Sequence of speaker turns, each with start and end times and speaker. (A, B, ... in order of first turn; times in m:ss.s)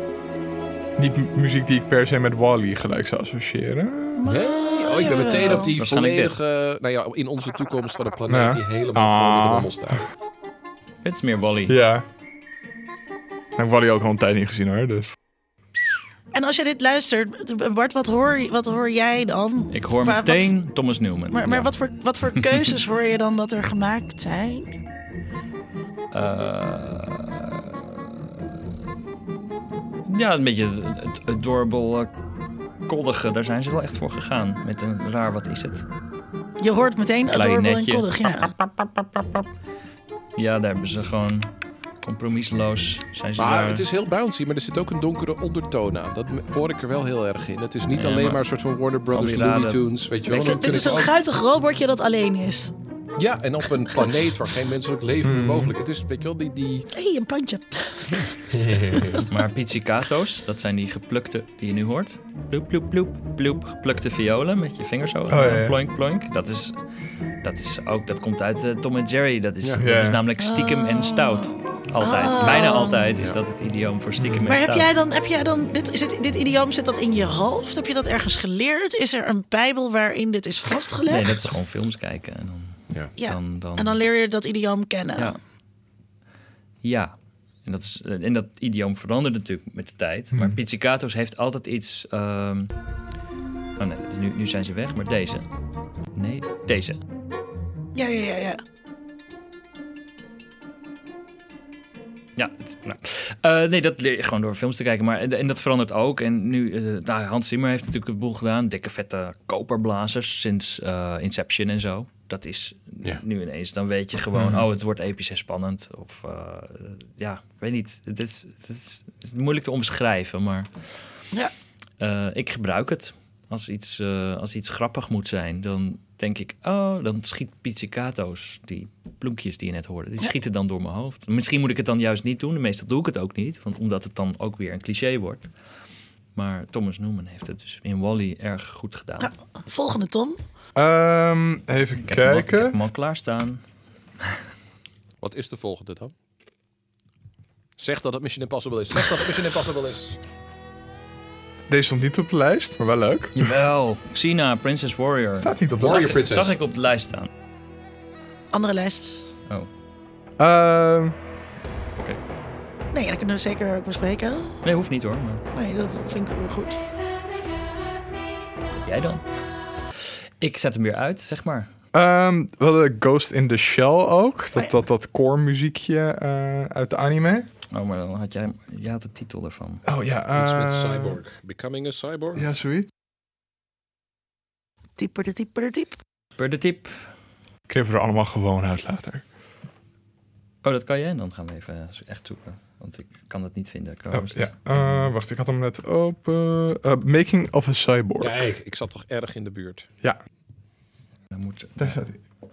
0:01.0-0:04.2 A
0:04.2-0:05.7 B
0:04.2-0:10.1 C
0:05.4-0:06.4 D
0:08.3-0:09.9 A
0:11.0-0:11.8 D
0:11.7-0:12.0 A
0:13.6-0:15.2 A
0:16.3-0:20.5 B
0:19.7-0:21.7 D
0:21.3-0:24.7 B
0:26.1-0:28.4 D
0:30.0-0:32.1 D
0:32.8-0:35.8 D
0:36.6-0:38.5 B
0:37.3-0:38.6 D
0:40.4-0:41.5 D
0:42.0-0:43.8 D
0:43.4-0:51.1 C
0:47.9-0:48.4 D
0:49.1-0:49.8 D
0:50.2-0:52.7 B
0:53.2-0:56.9 C
0:55.2-0:55.7 A
0:56.9-0:58.3 B
0:58.4-0:59.3 C
0:59.3-1:06.8 D
1:05.3-1:05.8 A
1:07.4-1:14.9 D
1:09.8-1:10.2 A
1:10.4-1:13.0 B
1:14.2-1:14.5 A
1:14.5-1:21.4 B
1:21.1-1:24.0 D
1:23.2-1:25.4 B
1:26.8-1:32.7 D
1:33.8-1:35.5 D
1:36.1-1:37.0 D
1:37.9-1:38.6 B
1:42.4-2:00.7 D
1:54.3-1:54.6 A
2:02.0-2:15.5 D
2:16.3-2:19.3 D
2:19.2-2:20.4 B
2:20.8-2:22.8 A
2:22.0-2:23.6 D
2:25.2-2:26.1 C
2:27.8-2:30.2 C
2:31.7-2:33.4 A
2:33.4-2:37.3 D
2:35.4-2:36.0 A
2:35.8-2:36.5 C
2:38.5-2:39.2 B
2:40.4-2:41.2 A
2:42.9-2:44.6 B
2:44.6-2:45.4 D
2:45.5-2:46.8 B
2:48.8-2:49.3 D
2:50.4-2:51.7 D
2:51.9-2:57.5 A
2:57.7-2:59.8 D
2:59.8-3:01.2 A
3:00.3-3:02.5 C
3:02.4-3:02.9 A
3:05.0-3:06.0 B
3:06.4-3:07.0 D
3:07.7-3:09.2 A
3:10.6-3:14.7 D
3:14.1-3:18.4 A
3:18.2-3:19.9 C
3:21.3-3:22.0 D
3:21.8-3:22.1 A